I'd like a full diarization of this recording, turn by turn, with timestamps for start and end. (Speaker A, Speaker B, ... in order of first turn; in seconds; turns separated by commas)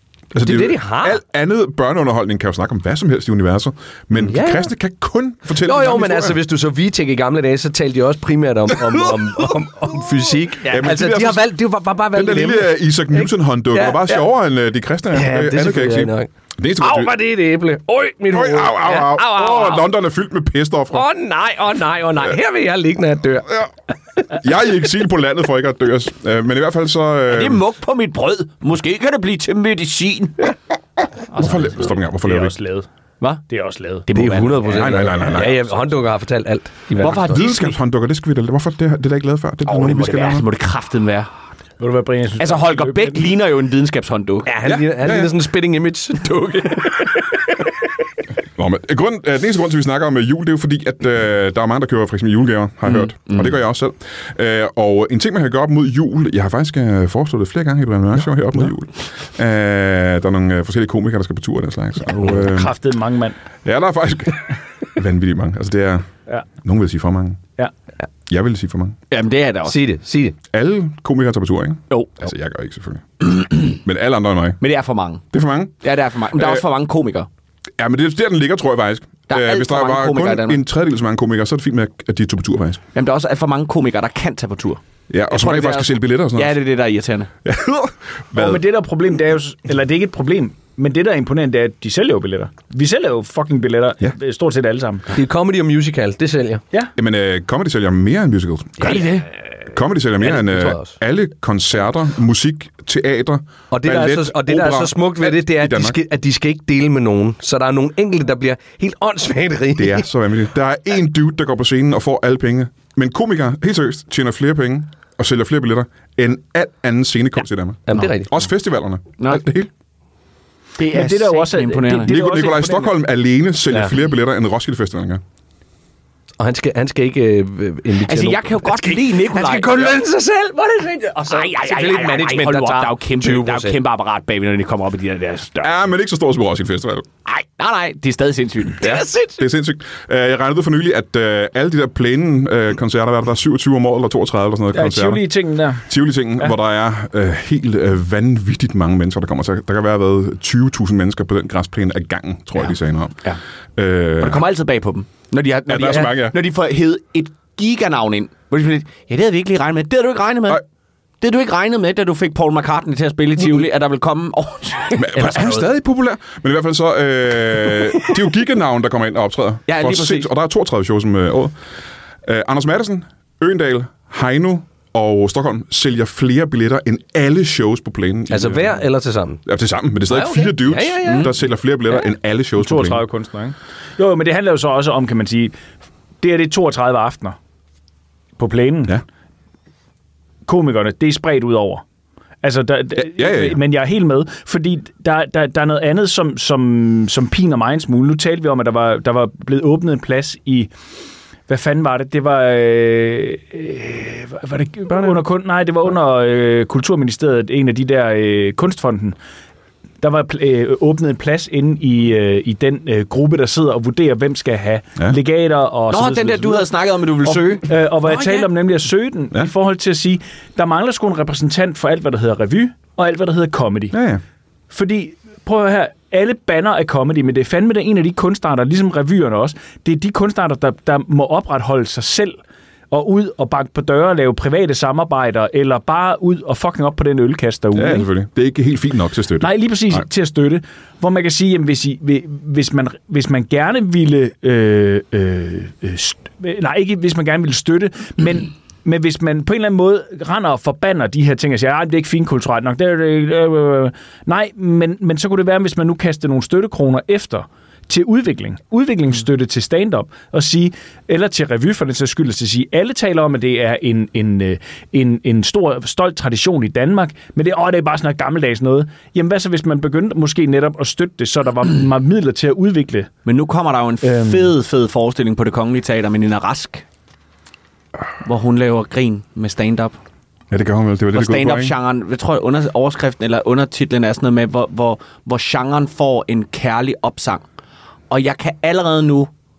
Speaker A: 0.3-6.4, Speaker B: 0.4-1.2, Speaker B: 4.2-4.7, Speaker B: 5.5-14.3, Speaker A: 10.7-11.5, Speaker A: 12.1-17.2, Speaker B: 15.1-19.9, Speaker A: 18.3-21.1, Speaker B: 20.9-23.7, Speaker A: 24.3-27.6, Speaker C: 27.3-30.5, Speaker D: 31.3-32.9, Speaker A: 31.4-32.6, Speaker D: 33.5-34.1, Speaker C: 34.1-35.0, Speaker B: 34.1-37.3, Speaker A: 34.6-35.8, Speaker C: 37.0-37.8, Speaker A: 37.0-40.5, Speaker C: 39.7-41.3, Speaker D: 41.8-43.2, Speaker C: 42.4-44.5, Speaker B: 44.5-47.3, Speaker A: 44.6-45.3, Speaker A: 48.6-62.7, Speaker C: 52.9-53.6, Speaker D: 62.2-63.4, Speaker A: 63.6-66.1, Speaker A: 66.6-67.4, Speaker A: 68.3-69.0, Speaker C: 69.1-69.8, Speaker B: 69.7-70.4, Speaker A: 70.5-74.6, Speaker C: 71.9-72.2, Speaker C: 74.6-75.3, Speaker A: 75.3-75.8, Speaker C: 75.8-77.3, Speaker A: 76.3-76.7, Speaker A: 77.8-82.8, Speaker C: 79.3-80.6, Speaker C: 82.9-87.3, Speaker A: 85.1-86.6, Speaker A: 87.4-88.6, Speaker D: 88.3-95.1, Speaker B: 95.1-96.6, Speaker A: 97.0-99.0, Speaker C: 98.8-99.3, Speaker A: 99.7-106.0, Speaker B: 100.2-101.0, Speaker B: 103.7-110.1, Speaker A: 109.8-119.7, Speaker B: 117.9-118.3, Speaker C: 119.2-119.5, Speaker C: 120.8-122.2, Speaker D: 120.8-123.0, Speaker A: 122.1-125.2, Speaker B: 126.4-133.8, Speaker C: 128.0-130.0, Speaker C: 131.3-135.9, Speaker A: 135.6-137.1, Speaker C: 137.3-139.1, Speaker B: 138.8-139.5, Speaker A: 139.4-145.3, Speaker D: 144.7-145.9, Speaker A: 145.8-153.2, Speaker C: 152.6-153.4, Speaker A: 153.8-154.4, Speaker C: 154.2-160.6, Speaker A: 155.7-156.4, Speaker C: 161.2-165.6, Speaker A: 164.9-171.5, Speaker B: 165.2-165.6, Speaker C: 169.7-170.3, Speaker A: 172.2-178.8, Speaker B: 178.3-179.4, Speaker A: 179.5-183.0, Speaker B: 180.1-181.3, Speaker C: 181.1-181.3, Speaker D: 182.6-185.6, Speaker D: 186.2-187.4, Speaker D: 188.4-189.0, Speaker D: 190.5-191.8, Speaker D: 192.4-200.7, Speaker A: 192.9-193.6, Speaker D: 201.5-209.2, Speaker D: 210.0-216.7, Speaker C: 215.9-218.5, Speaker D: 217.2-224.0, Speaker A: 223.9-224.2, Speaker D: 224.7-232.4, Speaker D: 232.9-238.1, Speaker A: 237.7-240.0, Speaker D: 239.4-273.1, Speaker C: 273.3-276.8, Speaker D: 274.0-274.5, Speaker C: 278.2-280.0, Speaker A: 280.5-281.8, Speaker C: 281.1-287.4, Speaker C: 288.1-289.3